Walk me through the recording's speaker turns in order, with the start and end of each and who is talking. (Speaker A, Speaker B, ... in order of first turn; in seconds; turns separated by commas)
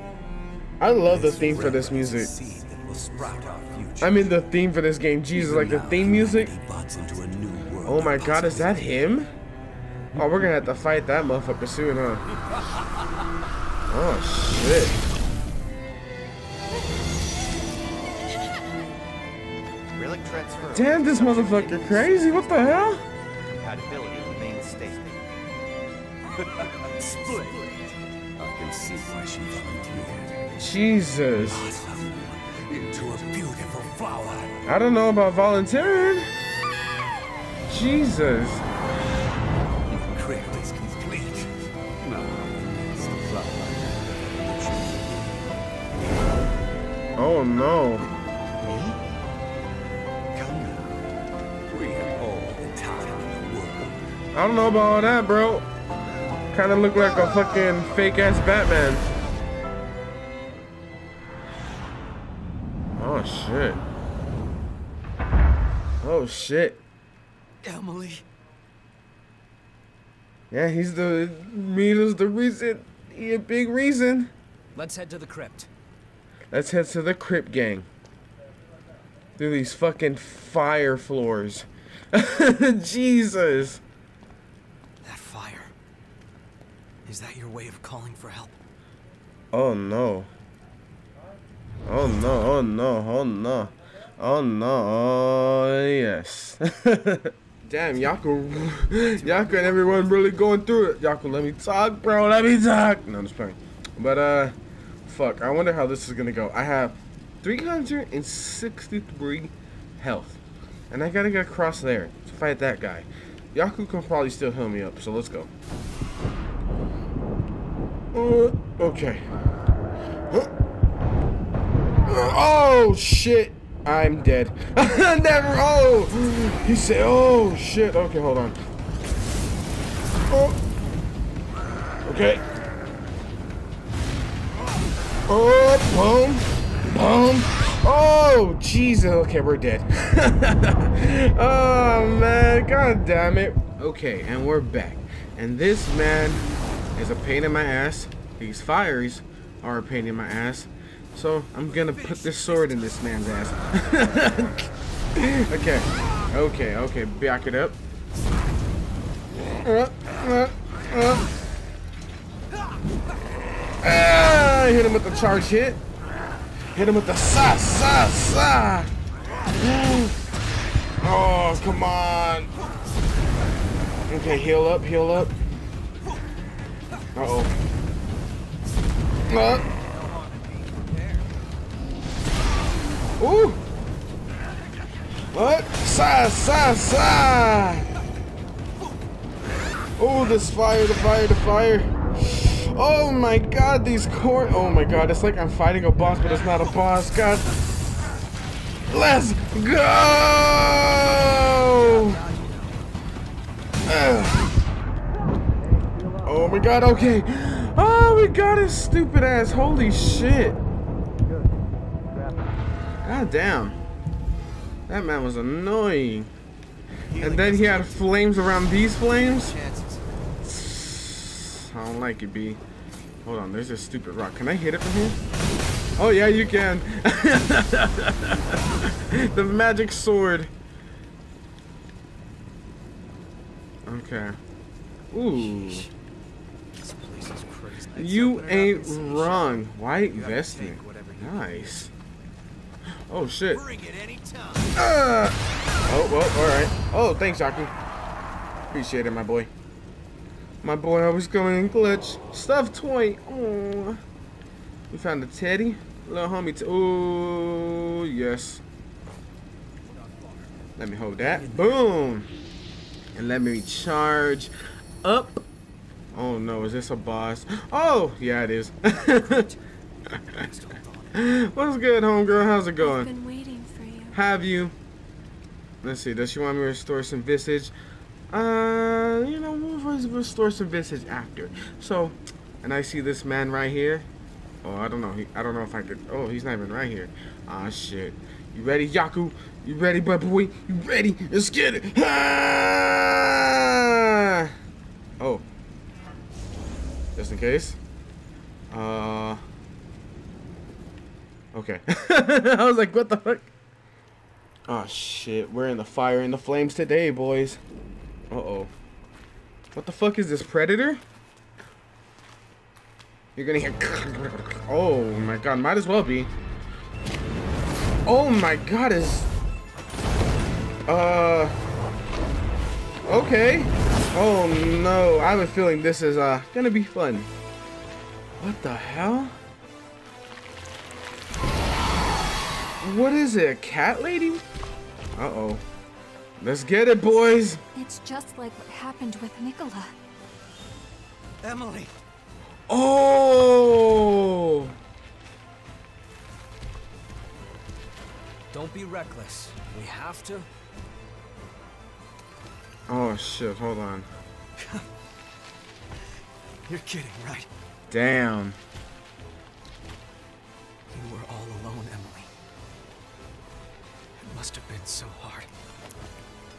Speaker A: 0.8-2.3, Speaker B: 1.1-4.5, Speaker A: 4.0-6.5, Speaker B: 5.3-8.9, Speaker A: 7.8-9.3, Speaker A: 10.2-12.3, Speaker A: 13.9-14.9, Speaker C: 19.9-22.7, Speaker A: 20.7-23.0, Speaker C: 23.5-25.3, Speaker B: 26.4-30.4, Speaker A: 30.6-31.6, Speaker B: 31.5-34.7, Speaker A: 34.7-36.3, Speaker A: 37.7-38.6, Speaker B: 39.9-45.4, Speaker A: 47.2-48.1, Speaker C: 48.6-49.0, Speaker B: 50.3-51.0, Speaker B: 51.7-54.0, Speaker A: 54.3-55.7, Speaker A: 56.5-59.0, Speaker A: 63.0-63.8, Speaker A: 66.0-66.8, Speaker D: 67.6-68.2, Speaker A: 70.5-74.3, Speaker D: 74.8-75.7, Speaker A: 76.5-77.9, Speaker A: 79.4-83.8, Speaker D: 85.0-85.7, Speaker D: 87.1-88.6, Speaker A: 89.5-90.3, Speaker A: 91.8-104.5, Speaker D: 99.0-100.2, Speaker A: 105.1-110.4, Speaker A: 110.9-115.5, Speaker A: 118.1-119.2, Speaker A: 122.0-128.6, Speaker A: 130.3-130.6, Speaker A: 132.1-132.4, Speaker A: 135.3-146.4, Speaker A: 147.0-157.8, Speaker D: 151.7-153.5, Speaker A: 159.6-161.3, Speaker A: 163.8-165.8, Speaker A: 166.7-168.9, Speaker A: 169.6-170.2, Speaker A: 171.0-172.5, Speaker A: 174.1-175.3, Speaker A: 177.2-177.5, Speaker A: 179.3-179.7, Speaker D: 179.6-181.4, Speaker A: 183.2-183.6, Speaker A: 185.3-187.9, Speaker A: 190.0-197.5, Speaker A: 198.9-202.2, Speaker D: 201.7-202.8, Speaker A: 203.9-204.4, Speaker A: 206.2-210.6, Speaker A: 213.0-213.8, Speaker A: 214.9-216.3, Speaker D: 217.1-220.0, Speaker A: 217.2-219.5, Speaker A: 220.4-222.6, Speaker A: 223.2-225.2, Speaker A: 226.0-230.5, Speaker A: 233.9-234.4, Speaker A: 235.1-235.9, Speaker D: 235.3-235.9, Speaker D: 236.8-241.8, Speaker A: 237.9-241.9, Speaker A: 243.1-243.6, Speaker D: 243.5-244.8, Speaker A: 244.8-247.7, Speaker A: 248.7-249.5, Speaker A: 250.6-254.0, Speaker A: 254.9-258.6, Speaker D: 259.9-260.5, Speaker A: 260.8-262.3, Speaker D: 261.2-261.8, Speaker A: 263.1-264.5, Speaker A: 265.0-265.4, Speaker A: 266.1-269.5, Speaker D: 268.9-269.6, Speaker D: 270.3-271.2, Speaker A: 271.1-273.1, Speaker E: 272.8-274.2, Speaker A: 274.1-274.7, Speaker A: 275.8-277.7, Speaker A: 278.3-284.1, Speaker A: 284.6-294.5, Speaker A: 297.2-297.8, Speaker A: 298.7-299.4, Speaker A: 301.5-303.5, Speaker A: 304.7-307.6, Speaker A: 308.3-308.7, Speaker A: 309.8-311.0, Speaker A: 313.4-316.3, Speaker A: 318.1-319.3, Speaker A: 320.9-321.6, Speaker A: 323.1-327.3, Speaker A: 328.4-329.4, Speaker A: 332.8-334.4, Speaker A: 335.1-335.6, Speaker A: 336.4-337.6, Speaker E: 337.8-339.9, Speaker D: 341.4-341.9, Speaker A: 342.7-344.8, Speaker D: 348.5-350.5, Speaker A: 352.9-354.1, Speaker D: 354.6-354.9, Speaker D: 356.7-357.5, Speaker A: 357.9-358.6, Speaker D: 360.9-362.3, Speaker D: 364.2-365.5